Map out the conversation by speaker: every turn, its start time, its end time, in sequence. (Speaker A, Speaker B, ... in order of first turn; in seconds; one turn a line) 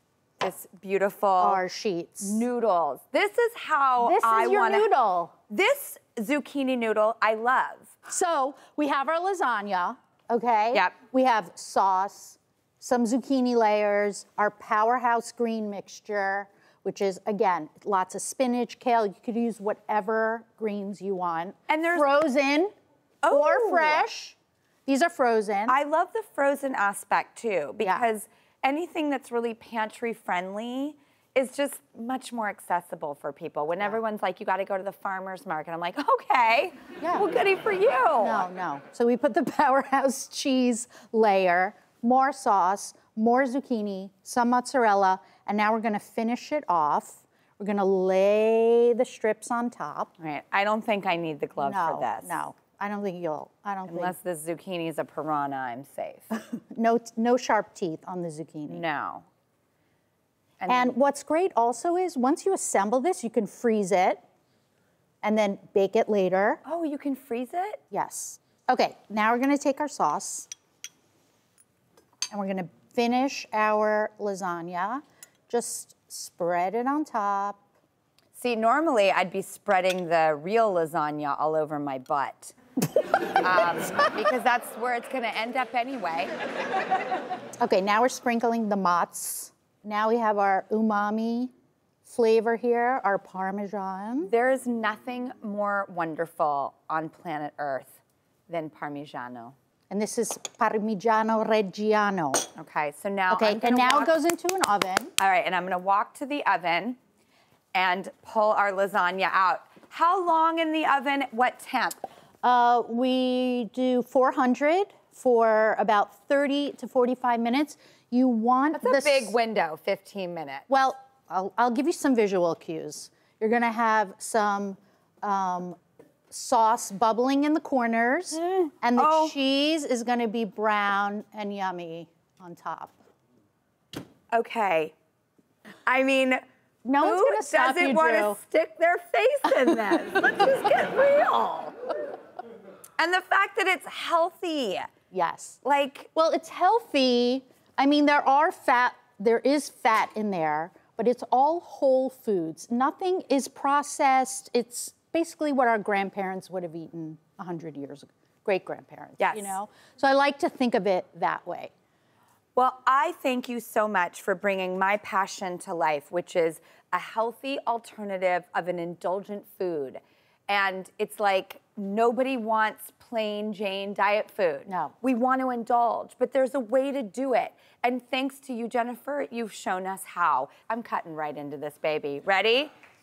Speaker A: 0.4-1.6
Speaker B: 1.4-2.4
Speaker A: 2.2-4.9
Speaker B: 4.0-5.3
Speaker A: 5.5-7.9
Speaker B: 8.1-22.7
Speaker A: 21.7-22.1
Speaker A: 23.2-24.1
Speaker B: 23.3-25.7
Speaker A: 25.7-38.5
Speaker B: 27.8-28.1
Speaker B: 37.0-37.2
Speaker B: 38.2-50.1
Speaker A: 50.2-52.4
Speaker B: 51.6-54.1
Speaker A: 53.9-56.3
Speaker B: 56.5-58.8
Speaker A: 58.7-59.3
Speaker A: 60.6-60.9
Speaker B: 60.7-64.2
Speaker B: 65.2-66.6
Speaker A: 66.6-67.8
Speaker B: 67.9-70.5
Speaker B: 72.3-77.6
Speaker A: 78.3-82.5
Speaker A: 83.4-86.3
Speaker B: 87.6-91.5
Speaker B: 92.0-94.3
Speaker A: 94.2-99.5
Speaker B: 99.9-102.5
Speaker A: 102.5-104.1
Speaker B: 103.3-105.1
Speaker A: 105.2-107.0
Speaker A: 107.7-112.0
Speaker B: 112.4-119.3
Speaker A: 118.7-120.7
Speaker B: 120.7-125.8
Speaker B: 126.3-132.9
Speaker A: 128.3-129.3
Speaker A: 134.3-134.9
Speaker A: 135.8-136.4
Speaker B: 136.8-138.4
Speaker A: 137.0-141.8
Speaker A: 143.0-144.9
Speaker B: 145.1-145.6
Speaker A: 145.6-146.1
Speaker B: 146.1-161.7
Speaker A: 159.2-159.6
Speaker A: 162.6-182.7
Speaker B: 174.7-174.9